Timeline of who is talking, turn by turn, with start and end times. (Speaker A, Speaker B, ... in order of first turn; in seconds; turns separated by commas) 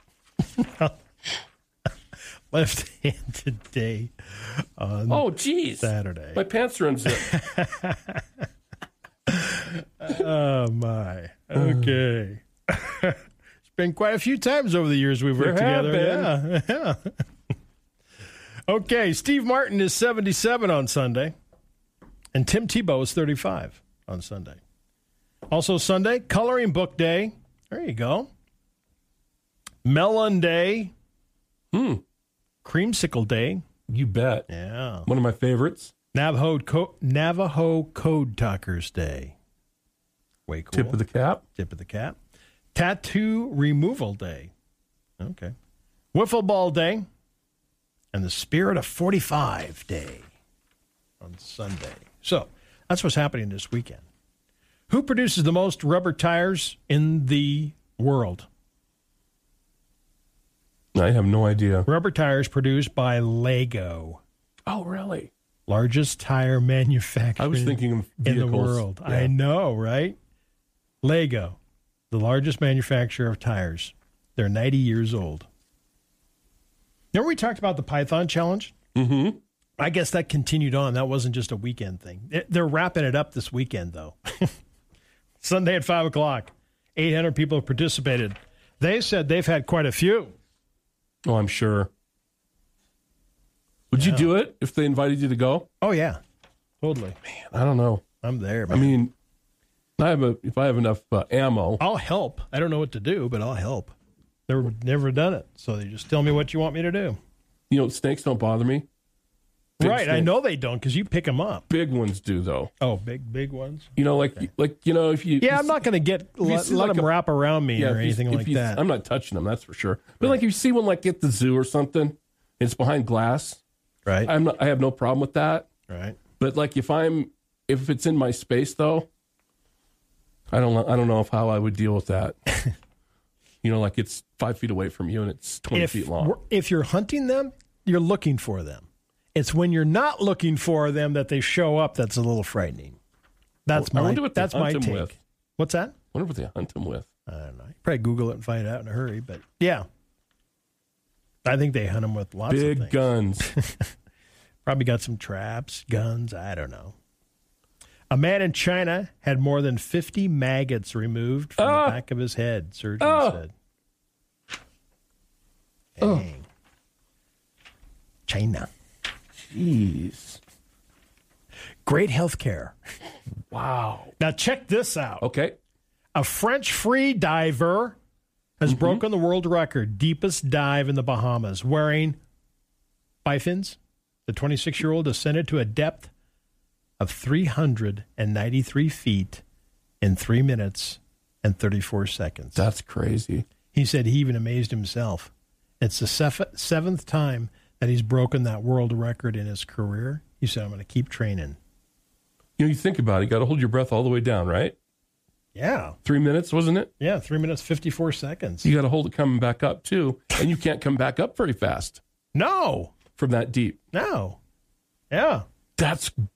Speaker A: 0.4-1.0, Speaker A: 2.5-5.3, Speaker B: 5.1-7.3, Speaker A: 5.8-6.4, Speaker A: 7.1-8.2, Speaker A: 9.3-17.2, Speaker B: 15.4-16.3, Speaker A: 18.7-21.3, Speaker A: 22.3-24.6, Speaker A: 25.5-28.3, Speaker A: 29.8-30.9, Speaker B: 31.7-32.0, Speaker A: 32.6-33.6, Speaker B: 33.9-34.5, Speaker A: 34.5-35.1, Speaker B: 35.1-35.9, Speaker A: 36.1-39.4, Speaker A: 40.5-41.0, Speaker B: 40.7-41.4, Speaker A: 41.6-42.2, Speaker A: 42.8-44.5, Speaker A: 45.2-45.5, Speaker A: 46.1-47.1, Speaker A: 48.1-50.3, Speaker A: 51.2-54.0, Speaker A: 54.9-58.5, Speaker B: 60.9-61.9, Speaker A: 61.9-64.2, Speaker B: 64.7-65.3, Speaker A: 65.7-70.2, Speaker B: 67.4-69.3, Speaker A: 71.0-71.6, Speaker A: 72.1-75.5, Speaker A: 77.1-78.8, Speaker B: 78.9-79.4, Speaker A: 79.8-84.5, Speaker A: 85.4-90.3, Speaker B: 91.2-91.9, Speaker B: 93.9-95.7, Speaker A: 93.9-94.3, Speaker A: 95.8-96.2, Speaker A: 96.8-97.2, Speaker B: 97.2-98.0, Speaker A: 98.2-99.0, Speaker B: 98.7-99.1, Speaker B: 100.0-101.8, Speaker A: 101.8-103.9, Speaker A: 104.5-107.2, Speaker B: 107.7-108.9, Speaker A: 109.8-111.7, Speaker B: 109.8-110.3, Speaker B: 111.7-112.7, Speaker A: 112.8-113.9, Speaker B: 114.0-115.9, Speaker A: 115.4-118.8, Speaker B: 116.4-117.1, Speaker B: 117.8-123.6, Speaker A: 124.1-124.3, Speaker B: 124.2-125.7, Speaker A: 125.9-126.2, Speaker B: 126.4-129.1, Speaker B: 130.5-132.4, Speaker B: 133.6-136.3, Speaker A: 135.7-143.0, Speaker A: 143.7-145.9, Speaker B: 143.7-145.2, Speaker B: 146.1-147.1, Speaker A: 147.3-149.8, Speaker A: 151.4-153.9, Speaker B: 152.5-153.5, Speaker A: 154.7-156.9, Speaker A: 158.1-163.5, Speaker B: 161.6-162.0, Speaker B: 163.0-163.4, Speaker A: 166.0-166.5, Speaker A: 168.3-168.7, Speaker B: 169.4-170.4, Speaker A: 171.9-172.8, Speaker B: 173.5-174.1, Speaker A: 174.2-175.2, Speaker B: 175.2-175.6, Speaker A: 176.1-178.0, Speaker A: 178.6-182.2, Speaker B: 178.7-179.0, Speaker A: 183.2-186.1, Speaker A: 187.0-189.4, Speaker A: 190.0-192.7, Speaker B: 192.6-193.4, Speaker A: 193.7-201.6, Speaker B: 202.6-204.8, Speaker A: 205.6-205.9, Speaker B: 206.1-206.9, Speaker A: 207.0-208.7, Speaker B: 208.6-212.0, Speaker A: 212.3-212.9, Speaker B: 213.2-213.8, Speaker A: 213.9-214.4, Speaker A: 215.1-215.4, Speaker B: 215.8-216.3